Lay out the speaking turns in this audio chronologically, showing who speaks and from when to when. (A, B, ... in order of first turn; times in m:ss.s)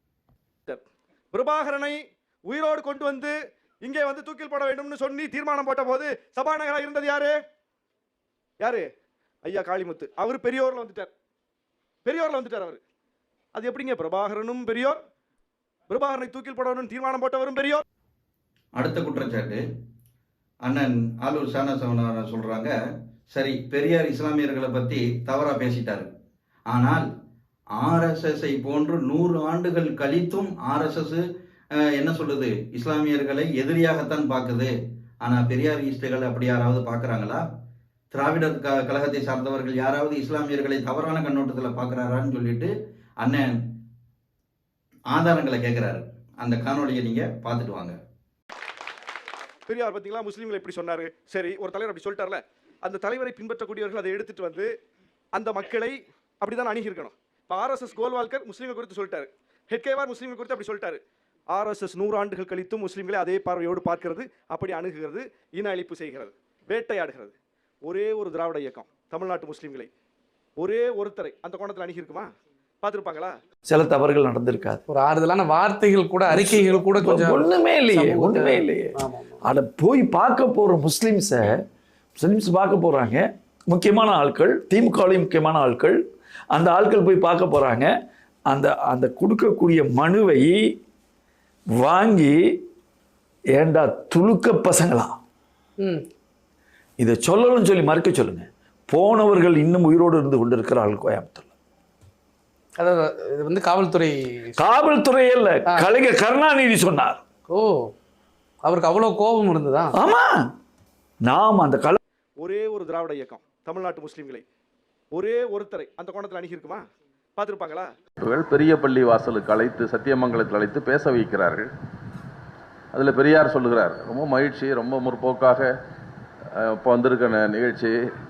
0:01.3-0:07.4 A
0:09.4-0:11.1 A
0:12.0-0:12.8 A
0:13.5-0:15.0 A
0:15.9-0:17.8 A
0:18.8-0:19.6 B
0:20.6-0:22.7 B
0:23.3-0:26.1 B
0:26.7-0:27.1 B
0:27.8-0:31.2 B
0:31.9-0:34.7 B
0:35.2-0:37.4 B
0:38.1-0:42.7 B
0:43.2-0:43.6 B
0:45.1-0:48.0 B
0:49.7-0:54.7 A
0:55.3-1:01.0 A
1:01.5-1:09.9 A
1:10.6-1:12.3 A
1:12.8-1:13.4 A
1:13.6-1:14.8 C
1:14.9-1:19.4 D
1:16.3-1:21.6 C
1:22.2-1:27.9 C
1:28.5-1:30.7 C
1:31.8-1:32.6 C
1:33.6-1:35.2 C
1:35.8-1:36.0 D
1:37.0-1:41.5 C
1:42.8-1:44.5 D
1:44.6-1:47.2 C
1:47.5-1:47.9 D
1:48.6-1:50.0 D
1:49.9-1:50.5 C
1:51.2-1:52.0 C
1:52.4-1:54.4 A
1:55.1-1:56.8 A
1:57.4-1:57.9 A
1:58.2-2:01.6 E
2:02.9-2:05.7 E
2:06.5-2:07.9 E